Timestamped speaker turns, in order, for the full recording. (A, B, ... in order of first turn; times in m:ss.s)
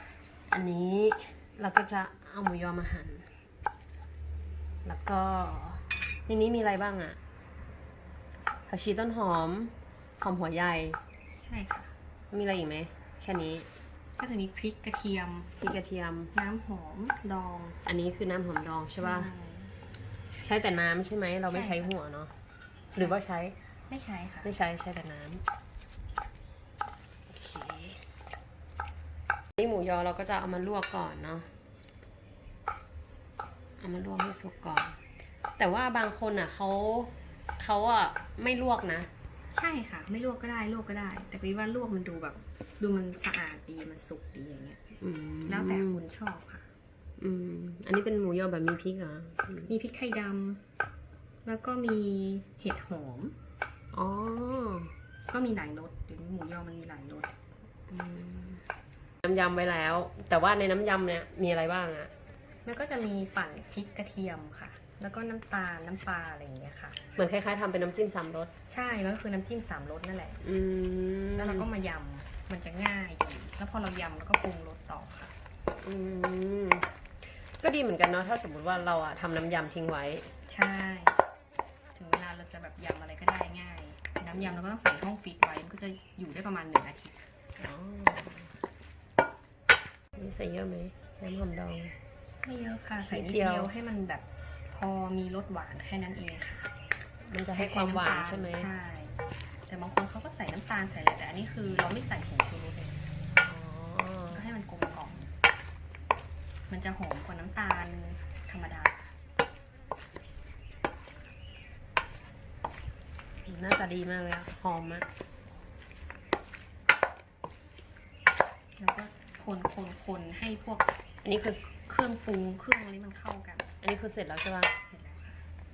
0:00.5-0:03.4 A
0:04.8-0:07.2 A
0:08.7-0:11.0 A
0:11.4-0:12.0 B
0:12.3-0:13.7 A
0:14.2-0:15.6 B
0:15.6-0:16.3 A
0:16.3-0:17.8 B
0:17.8-0:19.3 A
0:19.0-0:19.7 B
0:20.4-0:22.3 A
0:21.5-0:21.9 B
0:22.9-0:23.6 A
0:23.0-0:23.2 B
0:23.9-0:24.6 B
0:24.4-0:25.4 A
0:27.3-0:28.0 A
0:29.6-0:31.5 A
0:33.8-0:35.0 A
0:35.6-0:39.1 A
0:39.5-0:45.0 B
0:45.0-0:46.0 A
0:45.5-0:46.7 B
0:47.2-0:49.8 A
0:49.7-0:50.6 B
0:51.4-0:53.4 B
0:53.9-0:54.9 A
0:55.3-0:57.3 B
0:57.9-0:58.6 A
0:59.2-1:02.1 A
1:02.6-1:07.0 B
1:07.1-1:08.5 A
1:08.7-1:10.4 B
1:10.4-1:11.7 A
1:11.4-1:15.3 B
1:15.8-1:20.3 A
1:20.5-1:21.2 B
1:21.9-1:27.2 B
1:24.3-1:24.6 A
1:27.6-1:28.5 A
1:30.2-1:32.0 A
1:32.4-1:36.7 B
1:33.1-1:33.7 A
1:37.2-1:38.7 A
1:37.5-1:43.0 B
1:43.4-1:44.4 A
1:44.3-1:45.3 B
1:46.7-1:49.0 B
1:53.5-1:55.1 A
1:58.8-2:00.9 B
2:01.2-2:01.8 A
2:01.8-2:03.7 B
2:03.8-2:04.8 A
2:04.8-2:05.4 B